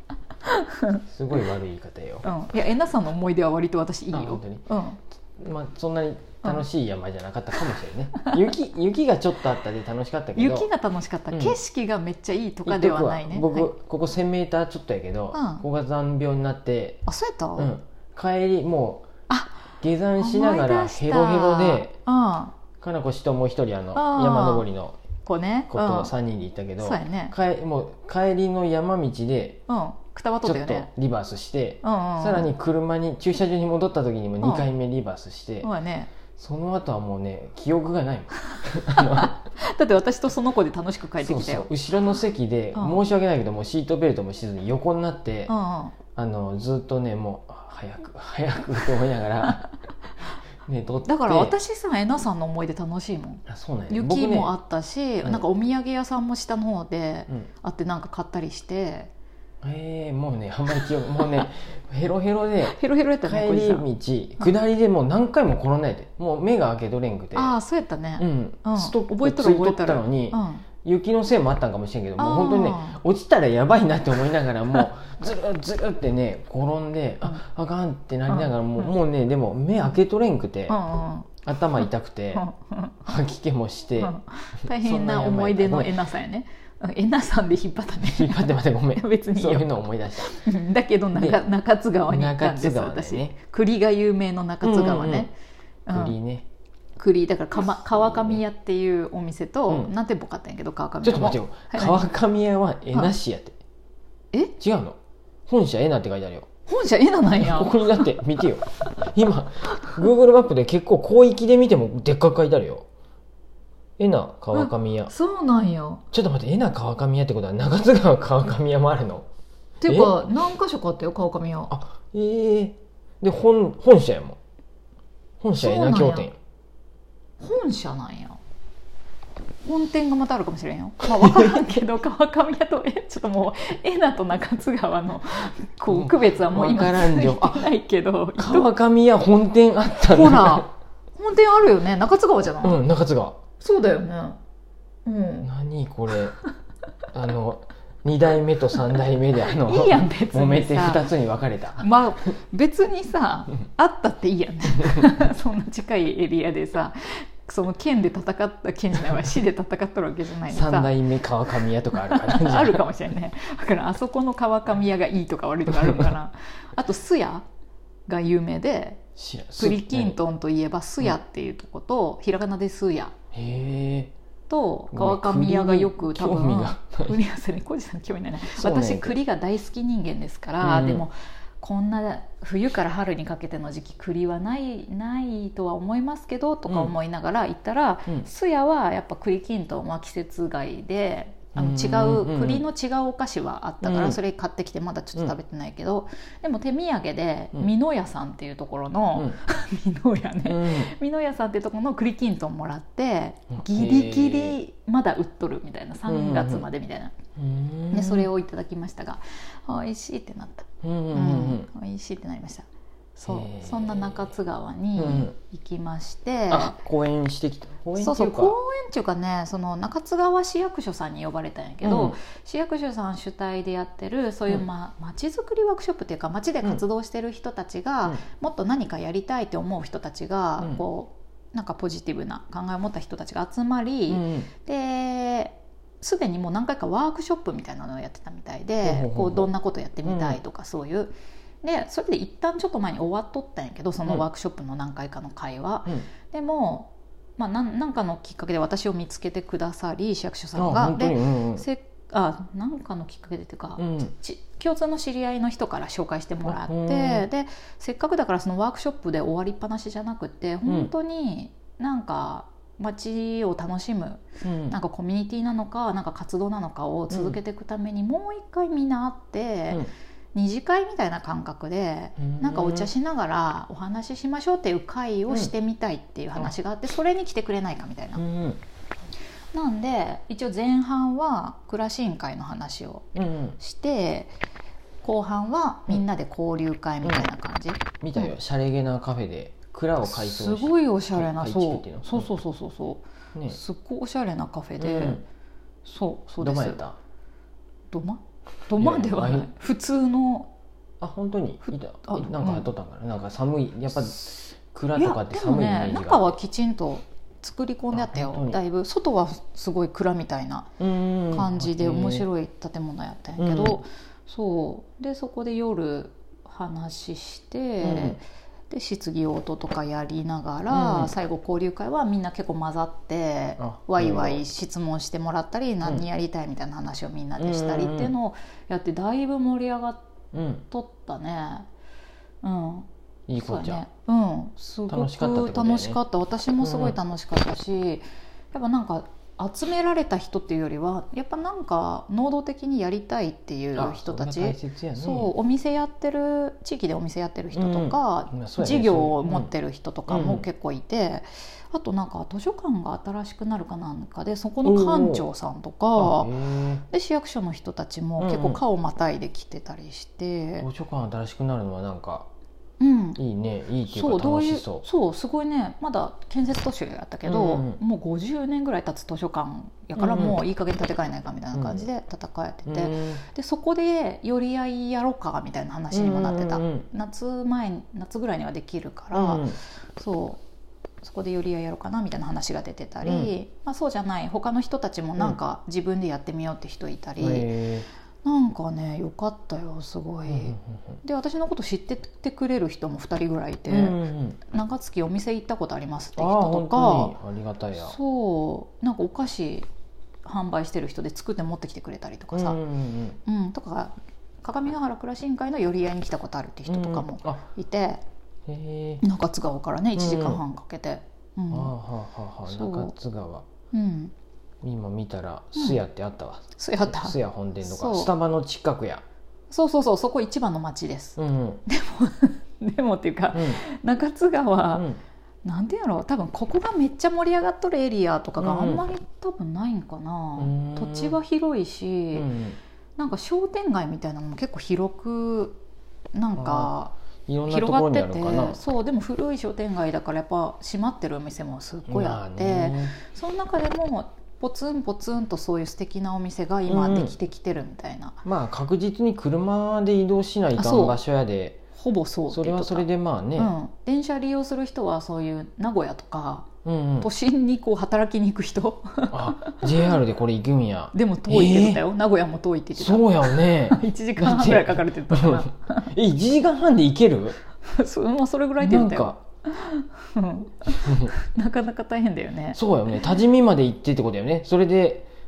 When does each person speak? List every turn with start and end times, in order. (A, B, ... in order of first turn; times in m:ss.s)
0:00.4-0:01.0 A
0:01.1-0:02.2 B
0:02.2-0:05.0 A
0:04.1-0:04.6 B
0:05.3-0:10.7 B
0:10.3-0:13.7 A
0:11.3-0:11.6 B
0:12.6-0:17.0 B
0:15.3-0:15.6 A
0:17.0-0:17.7 A
0:17.6-0:19.1 B
0:19.3-0:19.6 A
0:19.8-0:21.9 B
0:20.2-0:22.5 A
0:22.8-0:25.0 B
0:23.9-0:24.6 A
0:25.2-0:26.1 A
0:25.7-0:29.6 B
0:26.8-0:27.3 A
0:29.7-0:30.9 A
0:30.4-0:35.7 B
0:31.8-0:32.5 A
0:34.4-0:34.6 A
0:35.6-0:36.1 A
0:36.3-0:39.4 B
0:39.0-0:41.7 A
0:41.2-0:45.5 B
0:42.7-0:43.0 A
0:45.5-0:46.0 A
0:46.1-0:49.6 B
0:50.6-0:51.5 B
0:51.0-0:59.1 A
0:53.4-0:54.5 B
0:59.6-1:07.6 B
1:02.7-1:03.9 A
1:07.3-1:10.6 A
1:08.2-1:20.8 B
1:12.2-1:13.0 A
1:18.3-1:18.9 A
1:20.7-1:21.4 A
1:21.4-1:22.4 B
1:22.3-1:23.0 A
1:23.0-1:24.1 B
1:24.0-1:29.7 A
1:24.7-1:26.0 B
1:28.0-1:30.4 B
1:30.3-1:35.3 A
1:31.1-1:31.4 B
1:32.1-1:33.4 B
1:34.6-1:35.3 B
1:35.9-1:36.2 A
1:35.9-1:36.4 B
1:37.0-1:42.1 A
1:38.0-1:38.4 B
1:41.0-1:43.6 B
1:44.6-1:46.5 B
1:46.7-1:48.0 A
1:47.3-1:52.9 B
1:54.0-1:55.1 B
1:54.5-1:56.0 A
1:56.1-1:59.3 B
1:59.8-2:01.7 A
1:59.9-2:00.1 B
2:01.7-2:04.4 B
2:05.4-2:06.4 B
2:05.6-2:06.3 A
2:07.4-2:08.4 A
2:09.6-2:18.7 A
2:15.9-2:17.7 B
2:18.4-2:20.7 B
2:20.0-2:22.8 A
2:22.6-2:23.4 B
2:23.6-2:24.4 A
2:25.0-2:25.5 A
2:25.4-2:26.4 B
2:27.1-2:31.9 B
2:29.4-2:31.1 A
2:31.8-2:40.9 A
2:40.4-2:42.9 B
2:41.6-2:47.4 A
2:45.7-2:46.1 B
2:48.1-2:49.0 A
2:49.2-2:50.2 B
2:49.6-2:53.1 A
2:53.3-2:54.1 B
2:54.5-3:27.2 A
2:54.9-2:57.1 B
2:58.5-2:59.2 B
3:00.6-3:01.0 B
3:06.7-3:06.9 B
3:11.5-3:12.6 B
3:13.8-3:14.2 B
3:20.4-3:20.9 B
3:23.5-3:24.6 B
3:26.1-3:26.6 B
3:27.4-3:28.3 B
3:27.9-3:36.7 A
3:30.8-3:31.7 B
3:33.3-3:34.3 B
3:35.0-3:35.3 B
3:36.5-3:38.6 B
3:38.0-4:38.2 A
3:41.8-3:42.2 B
3:54.1-3:54.5 B
3:58.8-3:59.5 B
4:00.0-4:00.4 B
4:10.5-4:11.6 B
4:13.8-4:14.1 B
4:16.4-4:17.2 B
4:20.6-4:20.9 B
4:24.4-4:24.8 B
4:27.1-4:27.4 B
4:32.2-4:32.9 B
4:38.1-4:38.6 B
4:39.5-4:43.0 A
4:43.1-4:43.6 B
4:43.6-4:44.3 A
4:45.0-4:48.3 A
4:48.0-4:52.3 B
4:50.0-4:55.2 A
4:54.8-4:55.2 B
4:55.8-4:56.8 A
4:56.4-4:57.0 B
4:57.9-5:00.5 A
4:58.8-4:59.5 B
5:01.0-5:06.4 B
5:01.7-5:02.7 A
5:05.0-5:10.7 A
5:07.9-5:08.6 B
5:10.8-5:12.2 B
5:11.3-5:30.1 A
5:13.4-5:13.8 B
5:17.8-5:18.2 B
5:20.7-5:21.1 B
5:23.6-5:24.4 B
5:27.4-5:28.1 B
5:30.3-5:30.6 B
5:30.7-5:31.7 A
5:32.4-5:56.3 A
5:33.3-5:33.8 B
5:34.9-5:36.0 B
5:36.6-5:37.0 B
5:43.8-5:45.3 B
5:47.5-5:49.5 B
5:50.1-5:50.4 B
5:54.6-5:55.2 B
5:56.0-5:56.8 B
5:56.9-6:00.6 A
5:58.2-5:58.6 B
6:00.6-6:02.3 B
6:02.8-6:03.2 A
6:03.2-6:04.8 B
6:03.9-6:20.4 A
6:07.2-6:07.8 B
6:10.0-6:10.4 B
6:11.5-6:11.8 B
6:12.6-6:13.2 B
6:15.9-6:16.9 B
6:19.1-6:19.6 B
6:21.0-6:27.5 A
6:23.0-6:23.3 B
6:27.2-6:27.8 B
6:28.2-6:34.0 A
6:30.3-6:30.8 B
6:33.7-6:34.4 B
6:34.5-6:37.1 A
6:36.2-6:37.9 B
6:37.8-6:39.7 A
6:40.2-6:42.6 A
6:42.3-6:43.2 B
6:43.2-6:48.0 A
6:46.7-6:47.4 B
6:48.5-6:49.0 B
6:49.0-6:51.7 A
6:50.0-6:50.4 B
6:51.5-6:53.4 B
6:52.4-6:52.9 A
6:53.7-6:54.1 A
6:54.6-6:59.0 B
6:56.6-6:58.1 A
6:59.5-7:04.8 A
7:01.2-7:01.6 B
7:03.3-7:03.6 B
7:04.7-7:05.0 B
7:05.4-7:12.3 A
7:08.4-7:08.8 B
7:10.4-7:11.2 B
7:12.1-7:12.6 B
7:13.0-7:15.6 A
7:16.1-7:16.9 A
7:16.4-7:16.7 B
7:17.3-7:18.6 B
7:17.5-7:28.2 A
7:21.9-7:22.9 B
7:26.7-7:27.2 B
7:28.2-7:31.6 B
7:30.5-7:31.0 A
7:31.8-7:36.5 A
7:32.3-7:33.5 B
7:36.6-7:37.1 B
7:37.0-7:39.9 A
7:39.1-7:41.8 B
7:40.9-7:45.9 A
7:42.7-7:47.4 B
7:47.6-7:52.6 A
7:48.6-7:49.2 B
7:50.8-7:51.1 B
7:52.5-7:55.1 B